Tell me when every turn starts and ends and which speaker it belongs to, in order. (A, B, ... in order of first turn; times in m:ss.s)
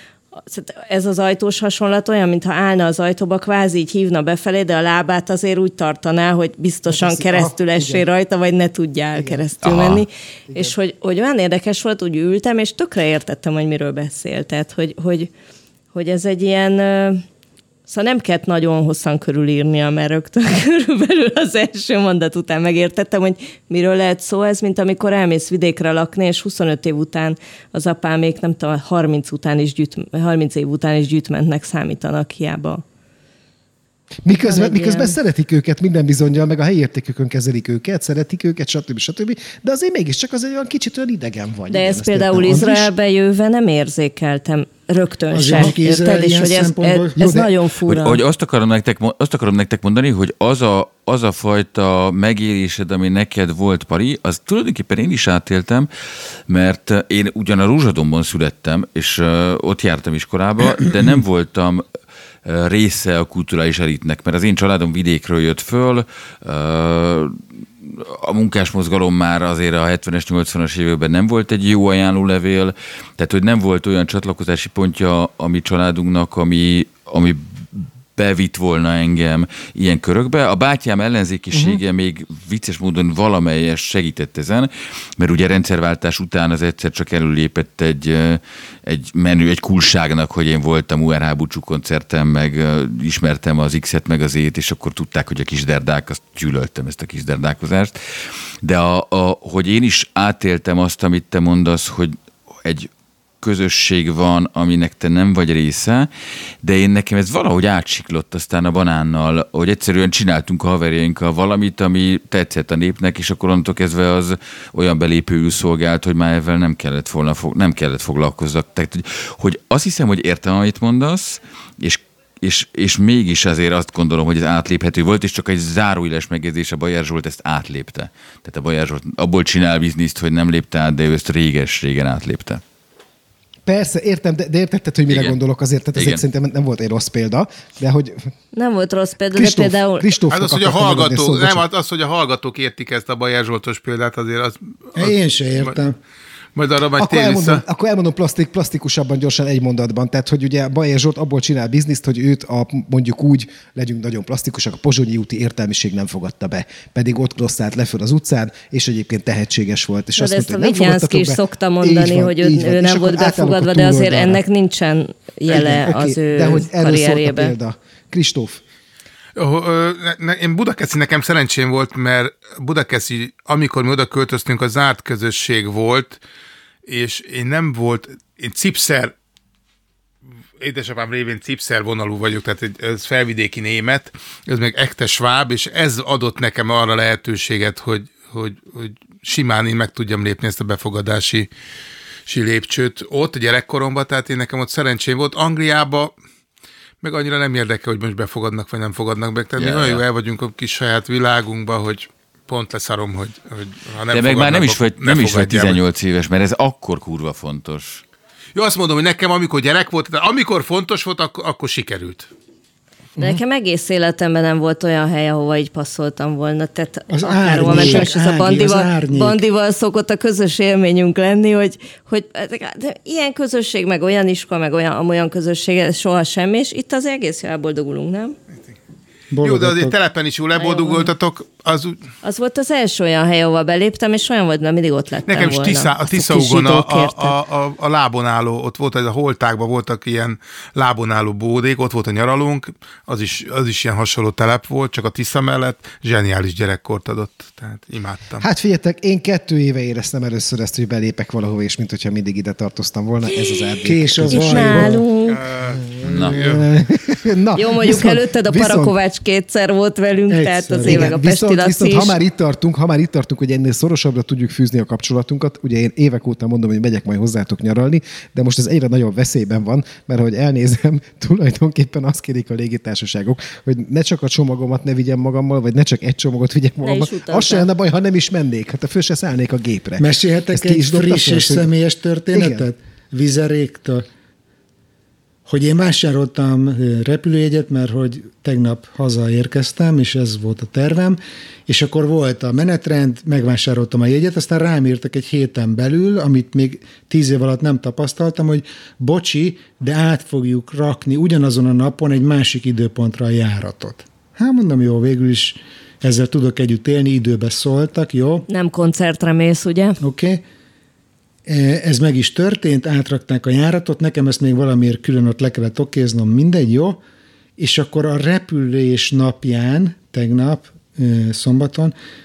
0:00.4-0:15.3 A
0:06.9-0:08.1 B
0:09.1-0:09.5 B
0:09.6-0:10.0 C
0:10.5-0:10.8 B
0:15.9-0:17.2 A
0:17.9-0:32.8 A
0:34.2-0:42.9 B
0:34.4-0:35.2 A
0:41.7-0:48.2 A
0:45.3-0:47.2 D
0:47.2-0:47.5 B
0:47.9-0:55.9 C
0:56.5-1:01.8 C
1:02.4-1:38.0 C
1:21.5-1:21.8 B
1:38.6-1:42.9 C
1:43.4-1:46.1 C
1:46.6-2:12.6 C
2:13.7-2:18.3 B
2:15.1-2:15.4 C
2:16.0-2:16.2 C
2:18.5-2:20.1 A
2:19.3-2:21.6 B
2:20.3-2:25.8 E
2:25.0-2:26.0 D
2:26.6-2:27.6 E
2:27.0-2:44.4 B
2:40.2-2:47.5 A
2:45.5-2:48.6 B
2:49.4-2:56.2 E
2:56.9-2:59.1 E
3:00.6-3:11.5 E
3:12.3-3:16.2 E
3:17.0-3:25.8 E
3:19.6-3:20.0 C
3:24.1-3:28.0 C
3:28.6-3:32.3 E
3:33.2-3:48.4 A
3:37.1-3:39.4 D
3:37.6-3:38.1 B
3:49.3-3:50.0 D
3:49.4-3:52.0 E
3:50.6-3:51.1 A
3:52.2-3:57.4 A
3:55.3-4:08.4 E
4:08.4-4:15.0 B
4:13.8-4:15.0 D
4:14.3-4:15.4 A
4:15.3-4:16.8 E
4:16.0-4:16.4 C
4:16.3-4:19.0 B
4:17.6-4:22.2 A
4:20.3-4:21.1 D
4:20.9-4:41.7 B
4:36.8-4:37.7 A
4:40.0-4:44.1 D
4:42.3-4:42.7 B
4:45.5-5:08.5 D
5:08.5-5:10.0 A
5:10.0-5:10.4 D
5:11.5-5:17.0 D
5:17.6-5:21.9 D